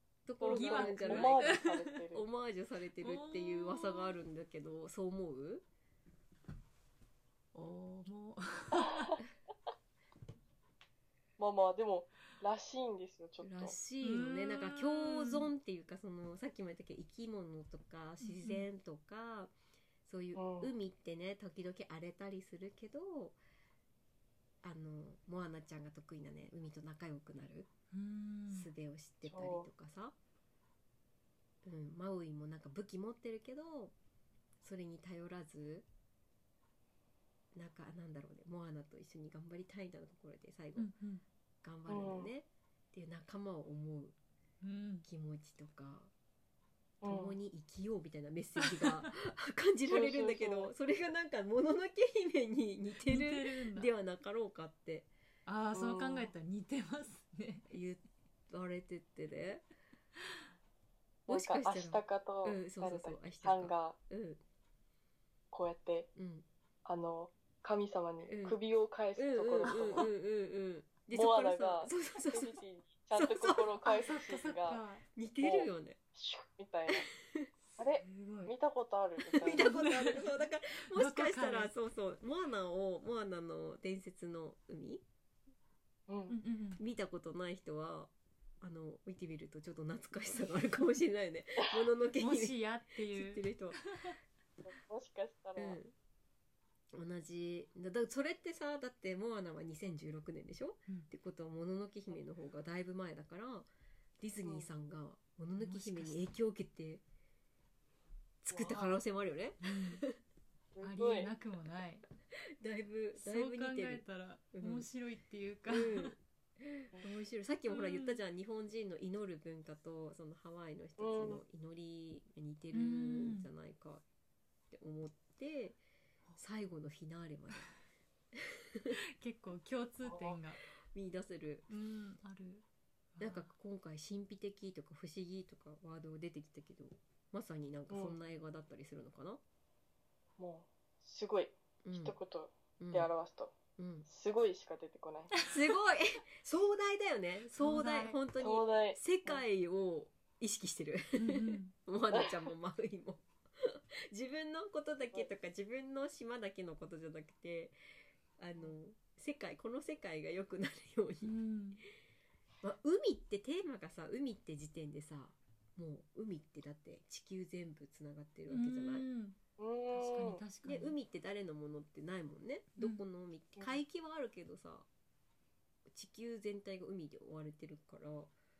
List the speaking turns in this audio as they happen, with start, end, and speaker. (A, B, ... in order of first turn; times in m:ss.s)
0:00.3-0:01.5 A
0:00.4-0:02.2 B
0:00.4-0:02.0 C
0:02.1-0:05.6 A
0:03.0-0:04.1 C
0:07.5-0:09.2 C
0:11.4-0:13.8 B
0:13.4-0:19.5 A
0:14.0-0:15.5 C
0:18.2-0:18.7 C
0:20.1-0:23.4 A
0:20.4-0:20.7 B
0:24.6-0:27.7 A
0:27.9-0:28.7 C
0:28.5-0:30.1 A
0:29.2-0:29.7 B
0:31.6-0:33.9 A
0:34.6-0:35.9 A
0:37.6-0:40.9 A
0:40.8-0:41.2 C
0:41.6-0:44.1 A
0:41.9-0:42.3 B
0:44.6-0:45.1 C
0:45.0-0:46.1 A
0:47.0-0:47.4 B
0:47.0-0:55.1 A
0:48.6-0:49.1 C
0:49.9-0:50.7 B
0:53.0-0:53.9 C
0:55.5-0:57.6 C
0:55.7-0:56.3 B
0:57.7-0:59.6 A
1:01.3-1:04.0 B
1:01.3-1:04.4 A
1:05.5-1:06.1 B
1:06.2-1:06.4 A
1:06.9-1:10.1 B
1:08.3-1:08.6 A
1:09.2-1:12.6 A
1:11.1-1:14.8 B
1:13.1-1:13.7 A
1:13.8-1:15.0 C
1:15.2-1:16.0 A
1:15.4-1:17.1 B
1:16.9-1:17.5 A
1:17.8-1:19.6 B
1:18.0-1:18.5 C
1:19.3-1:25.0 A
1:19.5-1:21.7 C
1:26.1-1:26.4 B
1:26.3-1:26.8 C
1:26.8-1:33.8 A
1:32.2-1:34.2 C
1:34.6-1:35.8 B
1:35.6-1:35.9 A
1:36.9-1:43.7 A
1:44.2-1:47.0 A
1:45.6-1:46.2 C
1:48.4-1:50.2 A
1:48.5-1:48.8 B
1:48.6-1:49.0 C
1:49.6-1:50.0 C
1:50.8-1:51.3 B
1:50.8-1:52.1 C
1:52.6-1:54.9 A
1:53.2-1:56.1 C
1:55.7-2:04.0 A
1:57.7-1:58.2 C
2:01.0-2:01.4 B
2:02.7-2:03.5 C
2:04.7-2:05.8 A
2:06.4-2:07.7 A
2:08.4-2:08.9 A
2:08.9-2:10.6 C
2:10.0-2:10.4 B
2:10.9-2:11.6 A
2:11.7-2:12.6 C
2:13.2-2:13.5 C
2:13.2-2:19.4 A
2:17.9-2:18.2 B
2:20.4-2:23.5 B
2:21.8-2:22.1 A
2:22.8-2:23.1 A
2:23.8-2:24.1 A
2:24.1-2:25.3 B
2:25.5-2:37.8 A
2:27.5-2:28.2 C
2:28.4-2:29.4 B
2:31.2-2:31.7 C
2:32.1-2:32.5 B
2:38.4-2:41.3 A
2:41.2-2:41.8 C
2:42.6-2:49.1 A
2:48.5-2:49.4 C
2:49.6-2:50.4 B
2:49.9-2:51.0 C
2:50.6-2:54.9 A
2:52.8-2:53.0 C
2:55.9-2:58.3 A